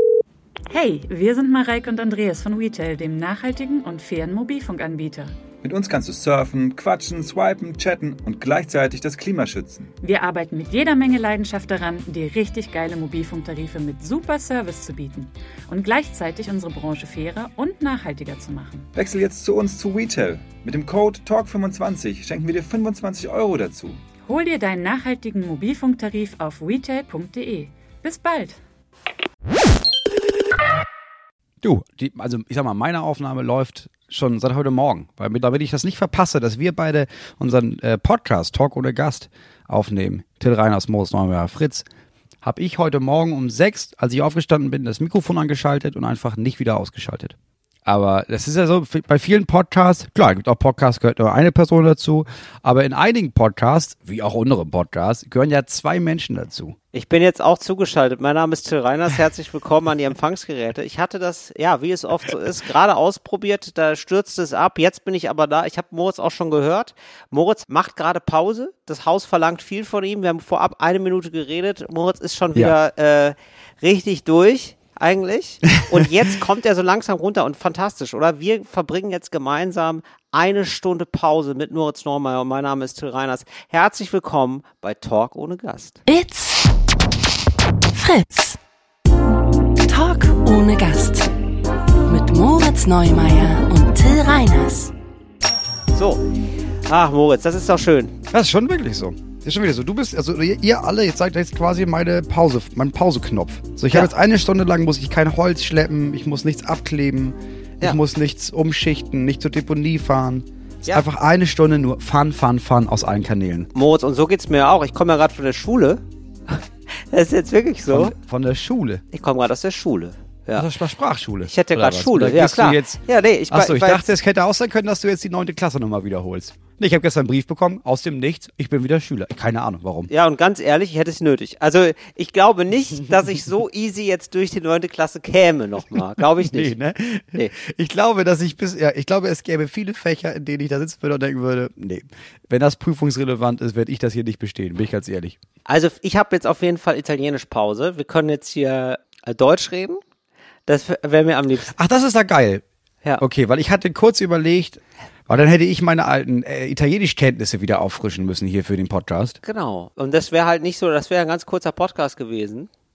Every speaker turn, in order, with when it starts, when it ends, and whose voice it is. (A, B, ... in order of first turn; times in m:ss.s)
0:00.7-0:05.3 A
0:05.6-0:09.9 B
0:10.0-0:18.9 A
0:18.9-0:24.0 B
0:24.2-0:28.6 A
0:31.6-0:41.8 C
0:42.4-0:47.3 C
0:47.8-0:56.8 C
0:56.9-1:26.0 D
1:26.0-1:26.7 E
1:27.9-1:28.6 E
1:29.8-1:31.3 E
1:32.0-1:34.9 E
1:35.9-1:36.2 D
1:36.9-1:38.2 D
1:38.3-1:53.7 C
1:53.7-1:58.1 D
1:57.9-1:59.0 C
1:59.1-2:00.7 D
2:00.6-2:03.0 C
2:01.4-2:04.1 D
2:03.5-2:10.1 C
2:10.1-2:16.8 D
2:16.4-2:25.4 C
2:25.7-2:30.0 D
2:30.7-2:31.7 D
2:31.7-2:32.6 C
2:33.2-2:39.4 C
2:39.4-2:42.7 D